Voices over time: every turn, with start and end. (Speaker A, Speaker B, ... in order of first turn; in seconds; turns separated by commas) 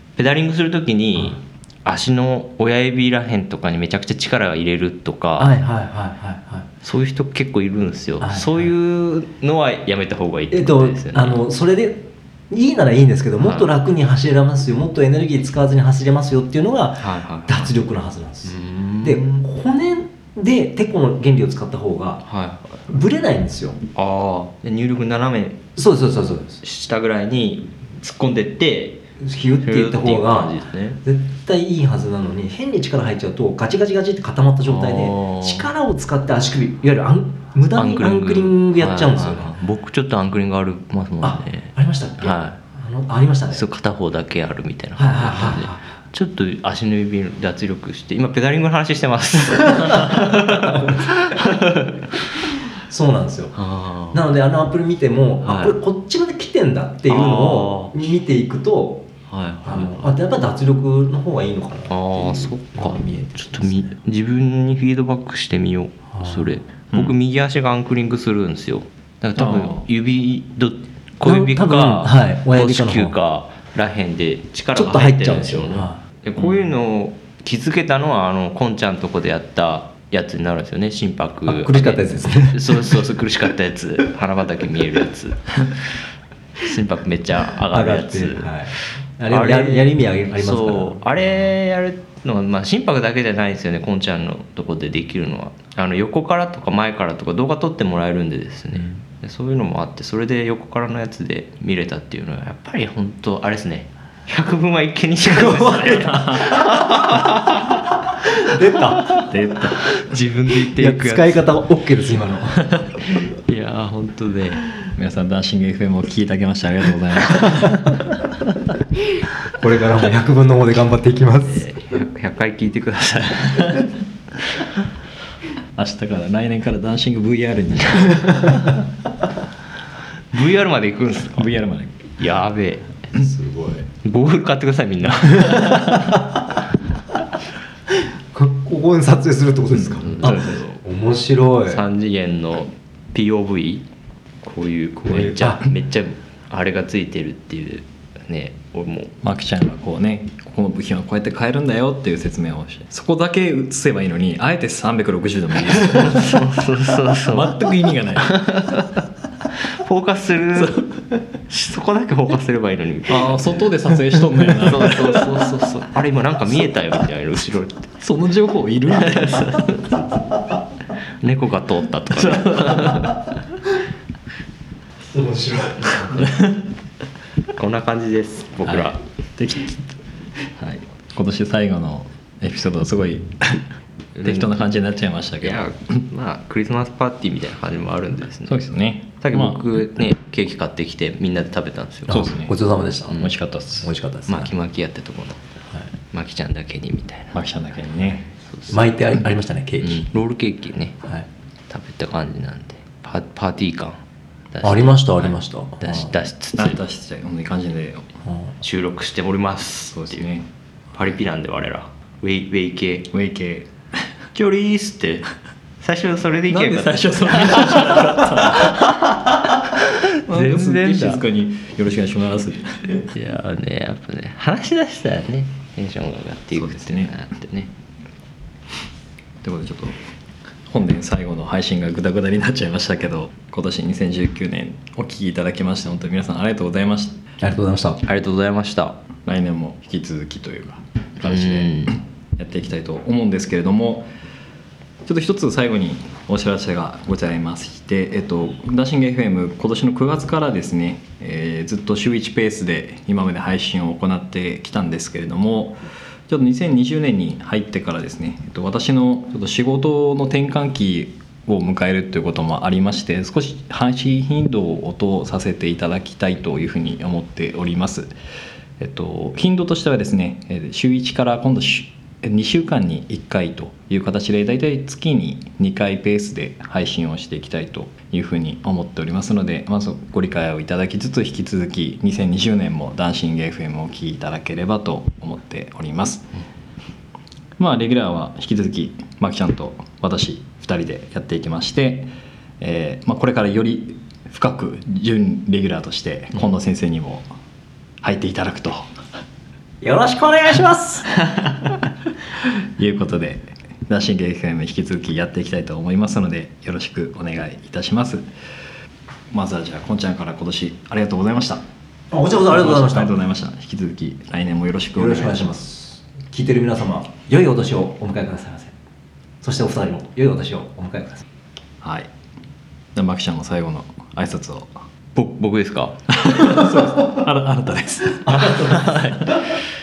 Speaker A: 0.2-5.5, Speaker B: 5.4-6.7, Speaker A: 6.8-11.4, Speaker B: 8.2-8.7, Speaker B: 10.5-22.2, Speaker A: 13.4-13.7, Speaker A: 17.0-17.7, Speaker A: 18.4-19.4, Speaker A: 22.2-22.6, Speaker B: 22.9-23.8, Speaker A: 23.9-25.7, Speaker B: 25.8-26.6, Speaker A: 26.6-29.1, Speaker B: 29.2-39.5, Speaker A: 29.6-31.0, Speaker A: 34.6-35.7, Speaker A: 37.8-42.6, Speaker B: 41.2-43.6, Speaker A: 43.5-52.1, Speaker B: 45.0-45.9, Speaker B: 49.8-51.1, Speaker B: 52.9-53.6, Speaker A: 53.6-54.2, Speaker B: 54.1-59.1, Speaker A: 55.4-55.8, Speaker A: 57.1-58.0, Speaker A: 59.3-60.1, Speaker B: 59.6-64.0, Speaker A: 61.9-85.8, Speaker B: 66.1-66.5, Speaker C: 69.4-69.8, Speaker B: 71.2-73.2, Speaker B: 74.8-76.0, Speaker B: 81.5-83.1, Speaker A: 86.6-107.8, Speaker B: 87.7-91.2, Speaker B: 105.3-106.1, Speaker C: 105.7-106.7, Speaker B: 108.4-109.2, Speaker A: 108.8-109.3, Speaker C: 109.1-110.0, Speaker A: 110.0-111.4, Speaker B: 110.8-112.8, Speaker A: 113.5-114.7, Speaker C: 115.0-118.1, Speaker B: 119.6-121.7, Speaker A: 121.4-123.9, Speaker C: 125.8-128.7, Speaker A: 130.3-131.5, Speaker C: 131.3-132.0, Speaker A: 132.2-133.0, Speaker B: 133.2-133.9, Speaker A: 134.0-136.1, Speaker B: 135.4-135.8, Speaker B: 137.9-141.8, Speaker A: 140.0-140.8, Speaker A: 141.7-143.9, Speaker A: 144.4-149.2, Speaker B: 145.1-145.6, Speaker C: 149.2-158.7, Speaker A: 155.9-157.6, Speaker A: 158.2-159.0, Speaker A: 159.6-163.7, Speaker C: 160.6-160.9, Speaker C: 163.1-165.4, Speaker A: 164.4-167.9, Speaker C: 168.0-169.7, Speaker A: 169.0-170.0, Speaker A: 171.2-173.2, Speaker C: 172.1-173.0, Speaker B: 175.1-176.3, Speaker C: 176.2-176.5, Speaker A: 177.6-179.0, Speaker C: 179.4-179.8, Speaker C: 180.6-183.7, Speaker A: 184.2-184.7, Speaker C: 184.2-186.1, Speaker A: 185.4-188.6, Speaker C: 188.5-189.7, Speaker A: 189.2-192.2, Speaker B: 192.1-193.3, Speaker C: 192.1-192.6, Speaker C: 193.1-193.9, Speaker B: 193.8-194.5, Speaker A: 194.3-197.3, Speaker C: 197.3-198.3, Speaker A: 198.5-198.8, Speaker B: 198.7-200.1, Speaker A: 199.8-201.0, Speaker A: 201.7-204.0, Speaker A: 204.5-206.8, Speaker B: 204.6-206.1, Speaker C: 206.6-208.1, Speaker B: 208.2-208.5, Speaker A: 208.6-210.3, Speaker C: 209.9-210.5, Speaker A: 210.9-213.1, Speaker C: 213.1-214.1, Speaker A: 214.3-215.3, Speaker A: 215.8-221.2, Speaker C: 216.5-219.1, Speaker C: 220.3-223.1, Speaker A: 223.1-227.7, Speaker C: 226.5-227.1, Speaker C: 229.4-230.0, Speaker C: 230.7-237.2, Speaker B: 237.4-238.0, Speaker A: 238.0-239.0, Speaker C: 239.3-244.1, Speaker A: 241.2-242.0, Speaker C: 245.1-268.1, Speaker C: 268.8-286.3, Speaker C: 287.6-297.3, Speaker C: 298.0-298.9, Speaker B: 299.8-301.1, Speaker C: 302.8-308.2, Speaker C: 309.3-311.6, Speaker B: 312.1-313.2, Speaker C: 312.5-315.5, Speaker B: 315.0-318.8, Speaker B: 319.4-321.2, Speaker C: 321.8-322.1, Speaker C: 322.9-324.7, Speaker A: 325.1-326.0, Speaker C: 326.1-329.1, Speaker A: 328.5-329.4